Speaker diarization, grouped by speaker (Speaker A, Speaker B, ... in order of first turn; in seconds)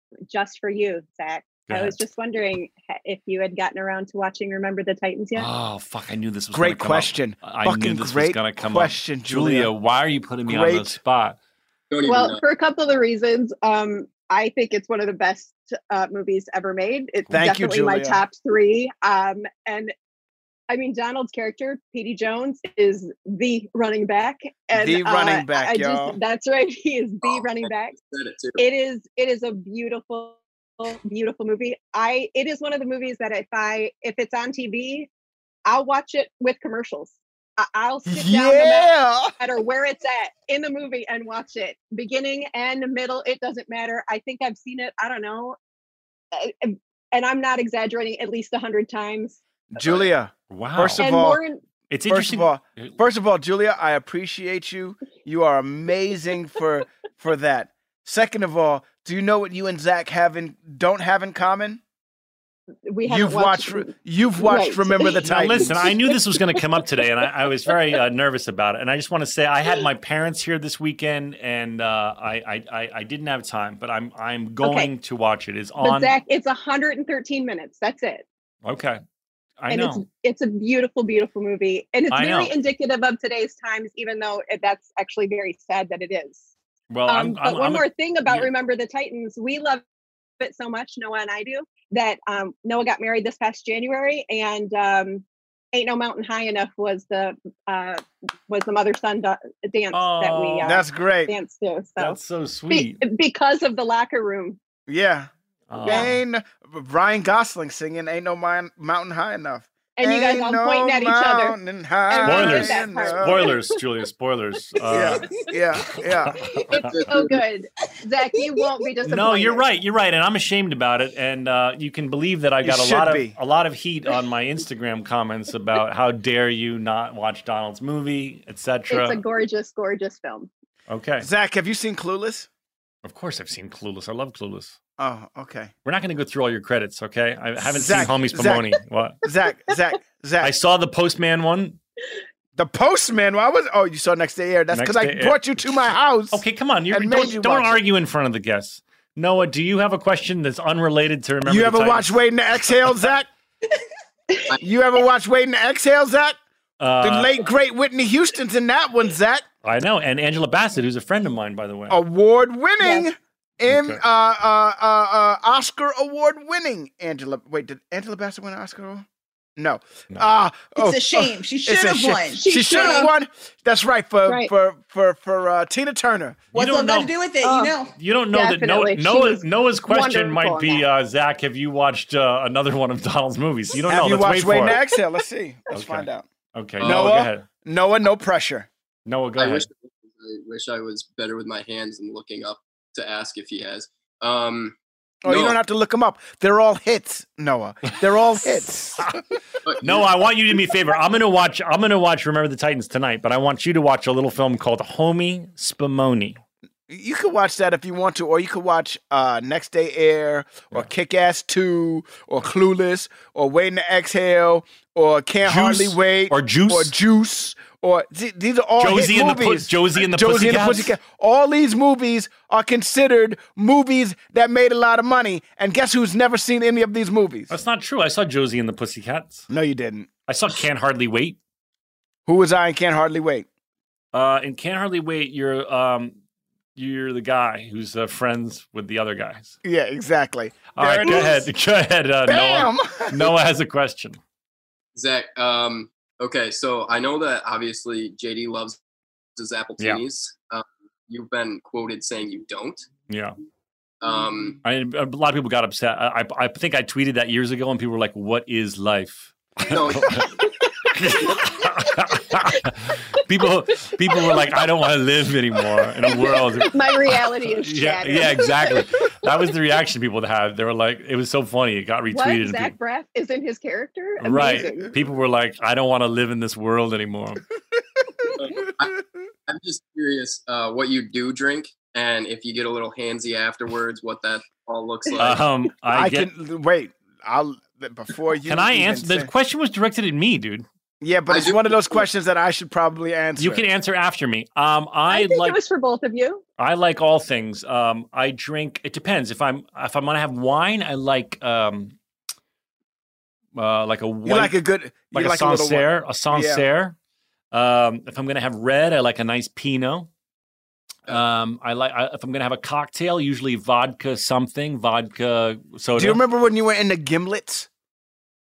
Speaker A: 0.3-5.5, 12.1-19.9, 20.7-27.9, 28.6-35.1, 35.6-45.6, 46.3-49.4, 51.0-51.6, 62.9-65.2, 65.9-67.3, 74.6-74.9, 75.8-78.2, 79.7-86.5, 87.1-89.8, 90.4-102.2, 102.7-104.6, 105.8-106.1, 110.0-113.8, 116.7-119.7, 128.9-130.5, 172.3-173.1, 177.4-177.7, 178.3-180.8, 264.1-264.4, 266.0-268.9, 272.1-274.9, 295.1-296.4
Speaker B: 1.7-2.0, 5.3-11.4, 50.5-51.0, 51.9-53.0, 65.2-76.2, 78.6-79.0, 79.6-80.0, 82.1-82.5, 86.9-88.5, 99.9-100.8, 102.0-103.0, 105.7-106.2, 112.2-115.3, 115.9-117.2, 119.0-129.2, 130.9-131.3, 133.0-134.8, 135.8-139.2, 140.4-141.8, 144.7-152.2, 156.8-157.4, 159.6-162.0, 163.7-164.0, 176.5-177.2, 177.9-184.8, 185.7-187.4, 189.1-189.7, 199.8-206.4, 215.4-216.9, 218.8-220.9, 227.5-229.4, 230.3-231.4, 234.1-236.2, 236.8-239.6, 240.7-244.2, 253.1-253.3, 254.6-260.3, 260.9-272.8, 274.2-277.4, 285.2-286.3, 288.4-290.6, 293.4-295.6, 296.6-301.9, 303.6-304.6, 305.1-306.9, 307.5-310.1, 311.1-316.2
Speaker C: 6.5-9.7, 10.4-10.9, 17.3-18.2, 24.7-26.2, 38.1-39.3, 49.7-51.4, 52.1-61.8, 63.0-65.9, 100.6-101.3, 104.9-105.3, 105.8-113.5, 114.9-116.3, 122.6-123.3, 131.2-132.5, 135.0-135.7, 137.6-138.7, 139.2-140.5, 142.6-147.8, 151.4-153.3, 154.6-156.4, 157.0-159.4, 161.9-169.1, 169.6-176.4, 183.9-186.2, 186.8-188.7, 195.2-199.2, 206.9-227.5, 229.5-230.1, 232.3-233.5, 239.6-241.5, 242.3-243.3, 285.9-289.3, 291.0-293.6, 304.2-306.6, 315.9-317.7
Speaker D: 11.9-12.4, 27.2-27.5, 28.0-28.6, 116.8-117.4, 189.4-195.6, 199.6-200.0, 244.9-248.8, 249.4-252.9, 254.0-254.6, 259.7-260.3, 278.4-278.9, 279.5-285.4, 291.3-292.0
Speaker E: 170.7-173.1, 176.5-177.9